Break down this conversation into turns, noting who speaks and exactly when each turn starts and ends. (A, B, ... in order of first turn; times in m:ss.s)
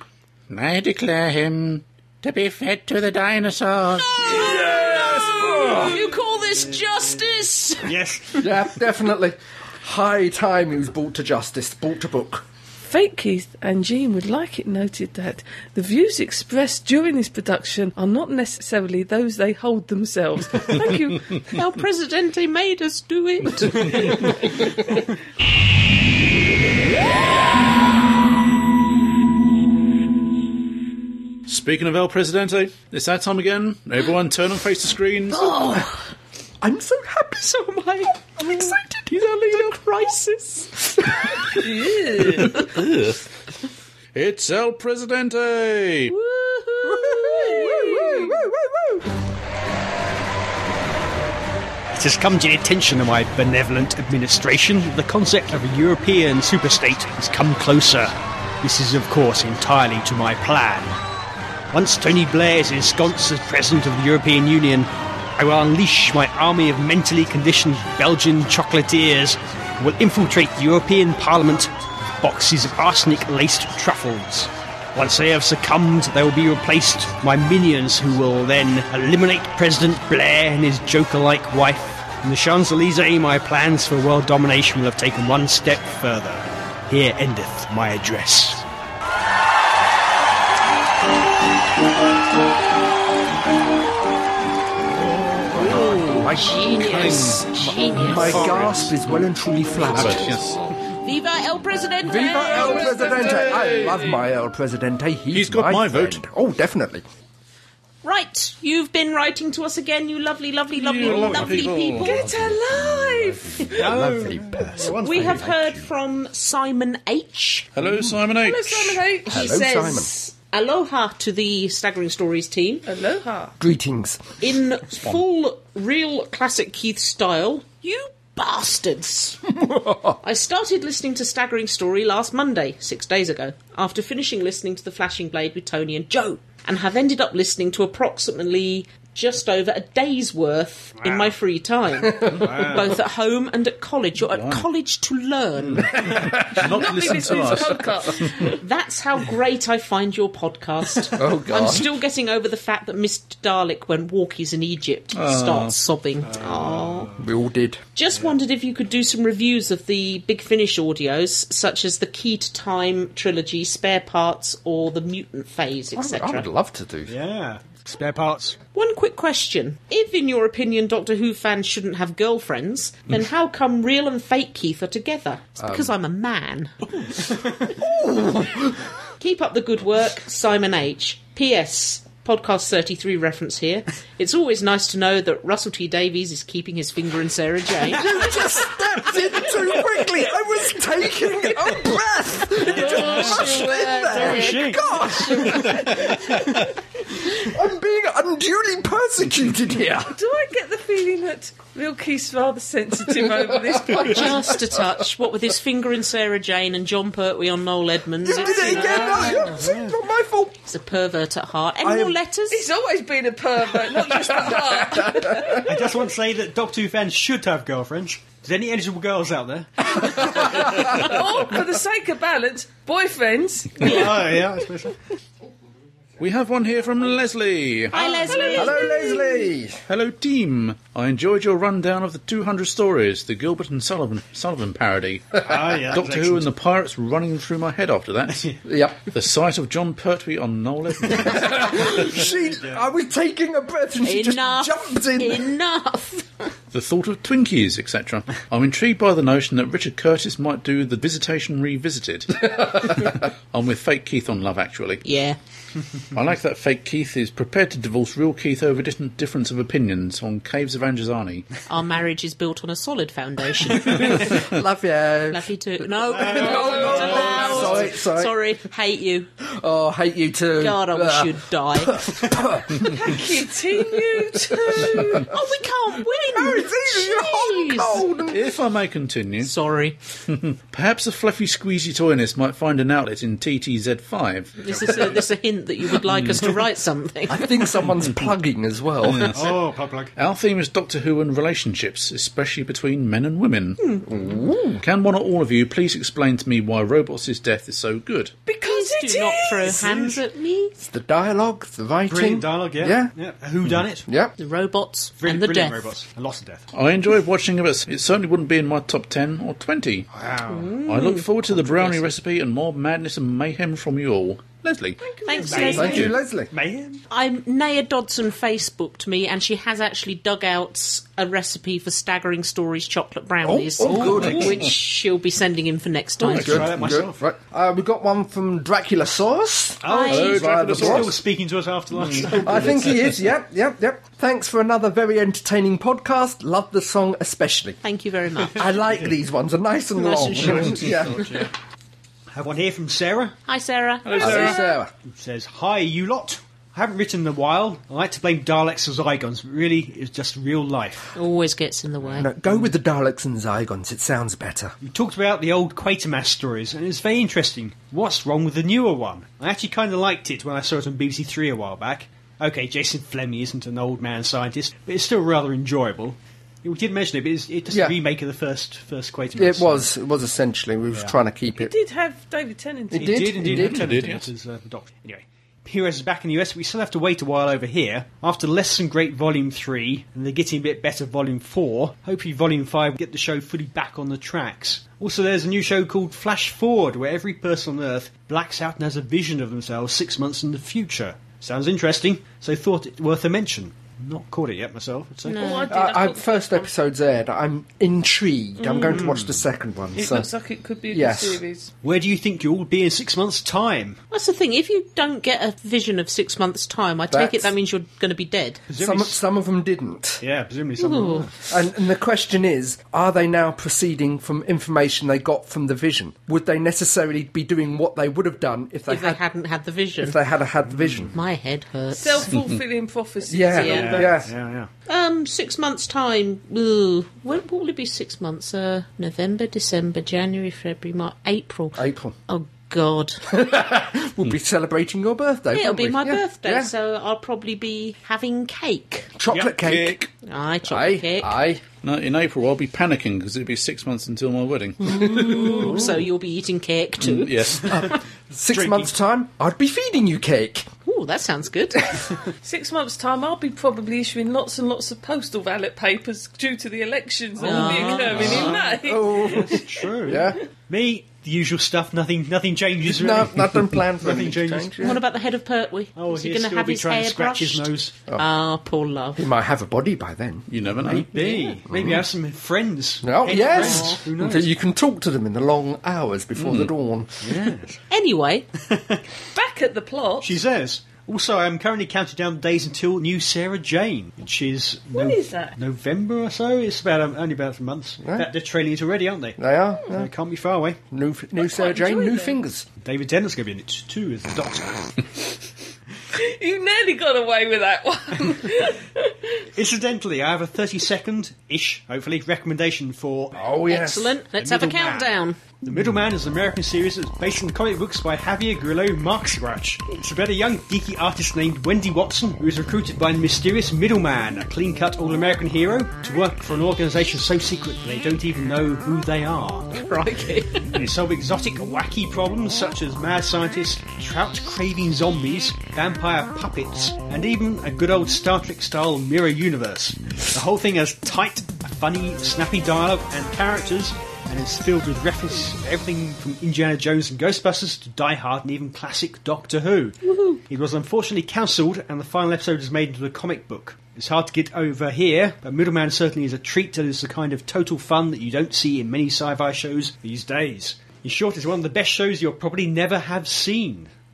0:00.5-0:04.2 A
0:04.1-0:07.9 B
0:04.2-0:06.0 C
0:07.8-0:08.5 D
0:08.4-0:12.4 C
0:12.8-0:21.3 E
0:21.5-0:24.4 B
0:31.5-0:35.6 F
0:35.4-0:35.8 B
0:36.6-0:41.2 C
0:41.5-0:42.6 E
0:42.4-0:43.2 F
0:44.1-0:46.2 F
0:46.1-0:48.3 B
0:46.8-0:49.1 C
0:47.2-0:48.3 E
0:51.9-1:01.0 D
1:01.7-1:28.6 D
1:35.5-1:40.4 C
1:35.5-1:37.4 F
1:35.7-1:38.7 B
1:38.2-1:39.0 F
1:39.9-1:40.7 F
1:39.9-1:43.5 B
1:42.0-1:47.0 C
1:43.0-1:44.1 F
1:45.3-1:46.2 F
1:48.0-1:52.2 B
1:50.8-1:53.3 F
1:51.1-1:51.4 D
1:52.0-1:54.0 E
1:52.8-1:55.9 C
1:53.8-1:55.5 D
1:54.9-1:57.7 B
1:57.7-1:59.0 F
1:58.4-2:00.1 E
1:59.3-2:00.1 C
1:59.3-2:02.8 B
2:02.8-2:03.5 E
2:03.6-2:04.2 C
2:04.4-2:09.5 B
2:09.6-2:10.2 C
2:10.2-2:26.0 B
2:21.0-2:21.4 D
2:22.0-2:22.5 C
2:22.4-2:23.0 D
2:24.2-2:24.7 F
2:25.8-2:28.5 F
2:26.0-2:26.8 C
2:26.5-2:28.6 E
2:28.4-2:37.1 B
2:31.2-2:31.8 C
2:35.1-2:35.7 F
2:36.2-2:37.3 D
2:37.2-2:37.8 C
2:38.0-2:46.5 B
2:45.9-2:47.1 C
2:47.1-2:48.6 D
2:48.7-2:56.9 B
2:55.6-2:55.9 C
2:57.6-2:58.8 C
2:59.2-3:08.2 B
3:07.8-3:16.6 C
3:12.6-3:16.3 D
3:13.0-3:14.6 B
3:17.3-3:20.1 C
3:20.1-3:24.3 E
3:23.1-3:24.8 C
3:24.0-3:29.5 B
3:28.2-3:30.6 C
3:28.5-3:30.0 D
3:30.7-3:32.6 B
3:31.8-3:32.2 C
3:32.5-3:35.7 E
3:34.1-3:35.6 C
3:35.5-3:41.0 D
3:40.8-3:44.3 E
3:43.8-3:45.0 D
3:46.2-3:48.3 F
3:47.9-3:48.9 B
3:48.3-3:49.4 E
3:48.5-3:49.8 C
3:49.9-3:58.5 F
3:55.4-3:56.5 D
3:58.6-3:59.0 C
3:59.1-4:01.9 F
4:01.2-4:05.5 C
4:01.8-4:02.8 D
4:04.0-4:06.5 B
4:06.7-4:15.0 F
4:15.0-4:15.4 B
4:16.1-4:21.4 F
4:21.7-4:24.3 B
4:23.9-4:28.3 C
4:25.3-4:29.3 B
4:26.1-4:27.7 D
4:29.4-4:33.2 C
4:30.6-4:32.0 B
4:32.8-4:35.3 E
4:34.7-4:35.1 C
4:35.2-4:38.1 B
4:36.2-4:38.5 C
4:38.3-4:39.5 F
4:39.4-4:40.0 B
4:40.3-4:45.1 F
4:44.6-4:47.5 B
4:46.1-4:46.5 F
4:47.3-4:49.3 C
4:49.0-4:49.5 F
4:49.3-4:50.1 D
4:50.2-4:53.8 F
4:53.8-4:54.0 B
4:54.1-4:54.8 C
4:54.8-4:58.3 F
4:58.4-4:59.8 E
4:58.6-5:00.7 B
4:59.7-5:00.1 D
5:00.8-5:03.1 C
5:02.1-5:04.1 D
5:04.0-5:04.3 C
5:04.4-5:05.8 B
5:05.2-5:06.7 D
5:06.7-5:10.1 F
5:10.1-5:10.7 D
5:10.5-5:12.0 B
5:10.8-5:15.0 F
5:15.0-5:15.9 E
5:15.2-5:16.1 B
5:15.4-5:17.0 D
5:15.7-5:16.5 C
5:17.1-5:26.7 B
5:23.4-5:24.7 C
5:23.9-5:24.5 F
5:26.2-5:27.2 D
5:26.3-5:31.2 C
5:29.8-5:33.0 D
5:29.8-5:30.4 B
5:30.1-5:31.2 F
5:32.0-5:32.5 F
5:32.4-5:37.8 C
5:37.8-5:38.8 B
5:38.5-5:41.4 C
5:40.0-5:41.5 D
5:40.6-5:41.1 F
5:42.3-5:43.4 D
5:43.5-5:44.6 B
5:44.0-5:44.6 F
5:44.2-5:44.9 C
5:45.0-5:51.1 D
5:51.1-5:52.3 B
5:52.0-5:52.7 D
5:52.2-5:54.7 C
5:54.8-6:09.9 D
6:07.7-6:08.0 C
6:09.3-6:11.7 C
6:11.5-6:13.4 E
6:12.9-6:13.9 C
6:12.9-6:35.4 D
6:13.4-6:14.3 F
6:35.2-6:35.8 B
6:35.4-6:36.7 E
6:35.7-6:40.3 C
6:38.8-6:39.4 D
6:39.9-6:41.7 E
6:40.9-6:41.4 C
6:41.8-6:44.0 D
6:44.1-6:48.6 B
6:47.1-6:47.5 C
6:48.7-6:49.2 D
6:48.8-6:50.2 C
6:50.2-6:51.3 D
6:50.8-6:51.3 B
6:51.4-6:59.2 C
6:58.9-7:00.2 B
7:00.0-7:01.1 C
7:00.7-7:01.1 D
7:01.1-7:02.3 B
7:01.9-7:04.2 E
7:03.3-7:04.3 C
7:03.5-7:04.1 B
7:03.6-7:04.7 D
7:04.9-7:13.2 B
7:11.8-7:12.1 C
7:13.3-7:16.7 C
7:15.5-7:19.1 B
7:19.2-7:20.0 C
7:19.3-7:19.6 D
7:19.6-7:20.1 F
7:20.2-7:21.4 B
7:20.6-7:21.6 C
7:21.8-7:25.4 F
7:24.8-7:25.9 C
7:24.9-7:27.9 B
7:25.5-7:26.0 D
7:27.0-7:27.8 F
7:28.3-7:30.7 C
7:28.5-7:28.9 D
7:30.8-7:31.9 B
7:32.4-7:39.8 E
7:37.4-7:38.7 D
7:37.4-7:38.6 B
7:38.2-7:40.4 C
7:39.2-7:45.0 D
7:42.8-7:45.0 C
7:44.8-7:49.2 B
7:46.0-7:47.9 D
7:49.2-7:50.4 C
7:50.5-7:51.1 F
7:50.8-7:54.5 D
7:51.1-7:51.6 B
7:51.7-7:52.0 C
7:53.0-7:57.4 C
7:53.3-7:54.0 B
7:56.4-7:56.7 F
7:57.2-7:57.8 D
7:57.9-7:58.5 B
7:58.6-7:59.0 D
7:59.3-8:00.4 E
8:00.2-8:09.4 D
8:04.9-8:05.5 E
8:08.0-8:08.3 C
8:09.4-8:10.1 C
8:09.9-8:10.8 D
8:10.9-8:12.7 C
8:11.4-8:12.4 E
8:12.8-8:15.0 D
8:16.1-8:19.4 E
8:19.5-8:23.4 D
8:23.3-8:24.2 C
8:23.7-8:25.4 B
8:24.4-8:39.8 D
8:39.7-8:40.8 B
8:40.7-9:13.9 D